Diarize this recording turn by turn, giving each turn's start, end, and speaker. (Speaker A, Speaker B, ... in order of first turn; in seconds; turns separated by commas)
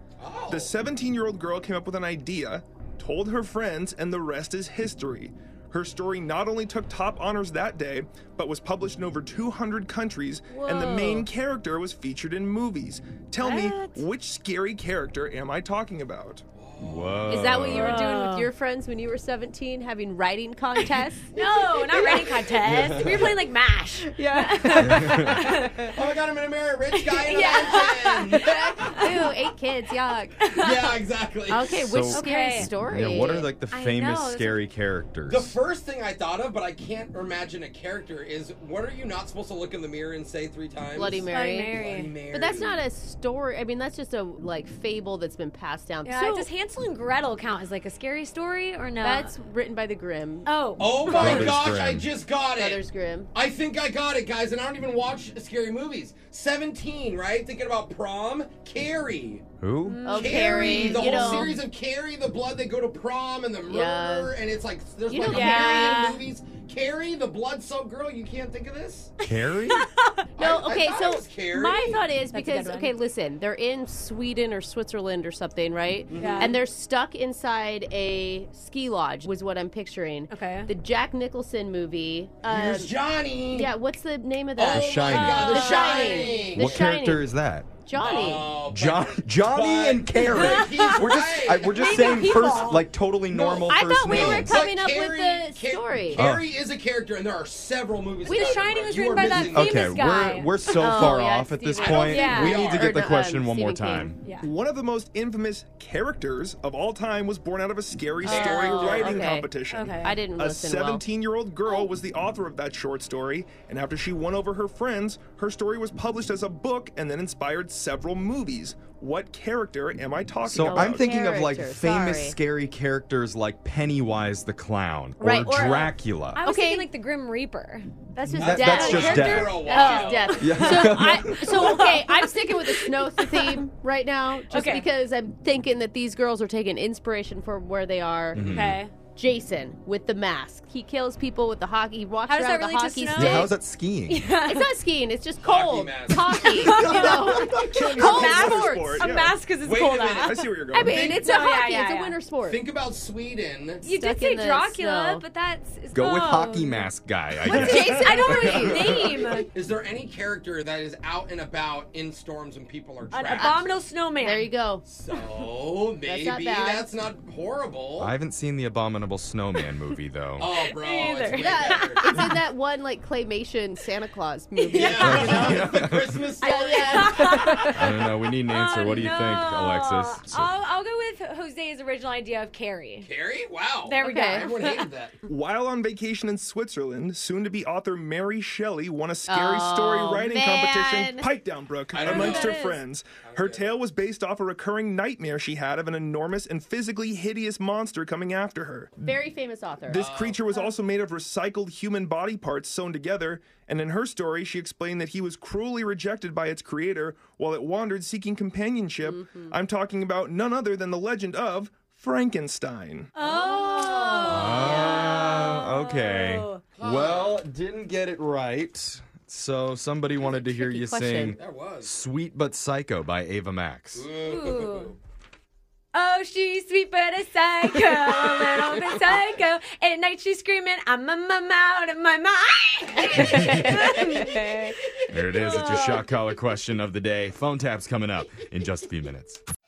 Speaker A: 0.2-0.7, Speaker B: 0.5-16.4, Speaker C: 10.5-11.3, Speaker D: 13.4-14.0, Speaker A: 16.6-17.3, Speaker E: 16.8-18.1, Speaker C: 17.3-21.3, Speaker D: 17.7-18.5, Speaker D: 21.3-25.9, Speaker E: 22.6-23.3, Speaker C: 24.1-25.9, Speaker E: 24.8-25.4, Speaker A: 25.9-28.5, Speaker D: 26.9-29.3, Speaker C: 27.2-33.5, Speaker D: 30.4-30.8, Speaker A: 30.6-31.7, Speaker E: 31.9-35.5, Speaker D: 32.1-32.7, Speaker D: 33.7-34.6, Speaker A: 35.3-42.9, Speaker C: 40.9-46.5, Speaker D: 41.3-42.2, Speaker D: 46.1-49.3, Speaker C: 49.0-51.6, Speaker D: 50.5-51.6, Speaker A: 50.8-52.8, Speaker E: 51.1-52.1, Speaker C: 52.5-53.3, Speaker A: 53.3-59.4, Speaker E: 59.6-60.1, Speaker D: 59.9-61.6, Speaker C: 60.0-61.6, Speaker A: 60.1-69.1, Speaker C: 63.6-64.5, Speaker C: 65.1-66.2, Speaker D: 65.2-66.2, Speaker E: 69.2-69.9, Speaker D: 69.5-70.2, Speaker A: 70.4-72.0, Speaker C: 70.4-83.0, Speaker D: 72.2-73.0, Speaker A: 76.1-76.5, Speaker D: 76.1-76.6, Speaker D: 80.3-80.7, Speaker A: 82.5-83.7, Speaker C: 83.5-87.3, Speaker A: 84.6-86.9, Speaker E: 84.6-85.7, Speaker D: 85.3-86.4, Speaker E: 86.5-87.7, Speaker C: 87.8-88.6, Speaker A: 88.0-92.1, Speaker E: 88.7-94.6, Speaker D: 90.2-92.9, Speaker A: 93.3-99.8, Speaker C: 93.7-96.2, Speaker E: 96.2-96.4, Speaker D: 98.2-101.3, Speaker C: 98.3-98.6, Speaker E: 99.3-104.2, Speaker C: 100.7-104.2, Speaker A: 101.8-102.9, Speaker D: 102.0-102.7, Speaker D: 104.2-104.5, Speaker B: 104.4-121.1, Speaker C: 108.3-109.5, Speaker A: 108.3-109.1, Speaker D: 108.3-109.2, Speaker D: 109.7-110.2, Speaker C: 110.0-111.0, Speaker E: 120.5-126.4, Speaker C: 120.6-122.4, Speaker C: 125.2-126.9, Speaker D: 125.4-133.6, Speaker C: 128.2-138.6, Speaker E: 128.4-129.6, Speaker A: 128.4-130.3, Speaker E: 130.4-131.9, Speaker D: 134.5-134.9, Speaker E: 138.3-138.8, Speaker D: 138.4-138.9, Speaker C: 139.2-143.5, Speaker D: 142.3-143.5, Speaker E: 143.1-144.3, Speaker D: 144.1-144.8, Speaker C: 144.4-149.1, Speaker A: 145.4-146.3, Speaker D: 146.4-152.2, Speaker B: 146.7-149.4, Speaker A: 149.6-151.2, Speaker B: 150.2-151.1, Speaker C: 150.7-152.7, Speaker A: 152.4-153.9, Speaker D: 153.8-156.9, Speaker C: 153.9-155.2, Speaker E: 155.9-159.0, Speaker C: 157.5-159.4, Speaker D: 157.5-159.5, Speaker A: 159.5-163.5, Speaker D: 163.1-164.5, Speaker C: 163.3-163.6, Speaker C: 164.2-164.8, Speaker A: 164.9-168.1, Speaker C: 166.0-166.9, Speaker E: 168.0-170.5, Speaker A: 170.4-172.0, Speaker D: 170.4-172.4, Speaker C: 171.3-178.0, Speaker D: 174.7-175.3, Speaker A: 174.8-177.1, Speaker E: 175.0-176.3, Speaker D: 176.4-183.1, Speaker E: 177.2-180.5, Speaker A: 183.0-185.2, Speaker D: 183.8-184.9, Speaker C: 184.0-184.5, Speaker B: 185.2-199.1, Speaker C: 189.3-191.3, Speaker A: 191.9-192.6, Speaker D: 192.0-192.8, Speaker A: 193.2-193.7, Speaker C: 199.0-200.7, Speaker B: 199.9-213.1, Speaker A: 200.0-200.4, Speaker C: 209.0-209.6, Speaker D: 213.2-216.6, Speaker E: 214.3-224.1, Speaker A: 216.8-217.4, Speaker C: 220.2-221.4, Speaker A: 221.4-222.0, Speaker A: 224.0-224.9, Speaker D: 224.2-225.0, Speaker D: 225.9-234.7, Speaker C: 233.2-234.7, Speaker E: 235.1-239.4, Speaker D: 235.3-236.1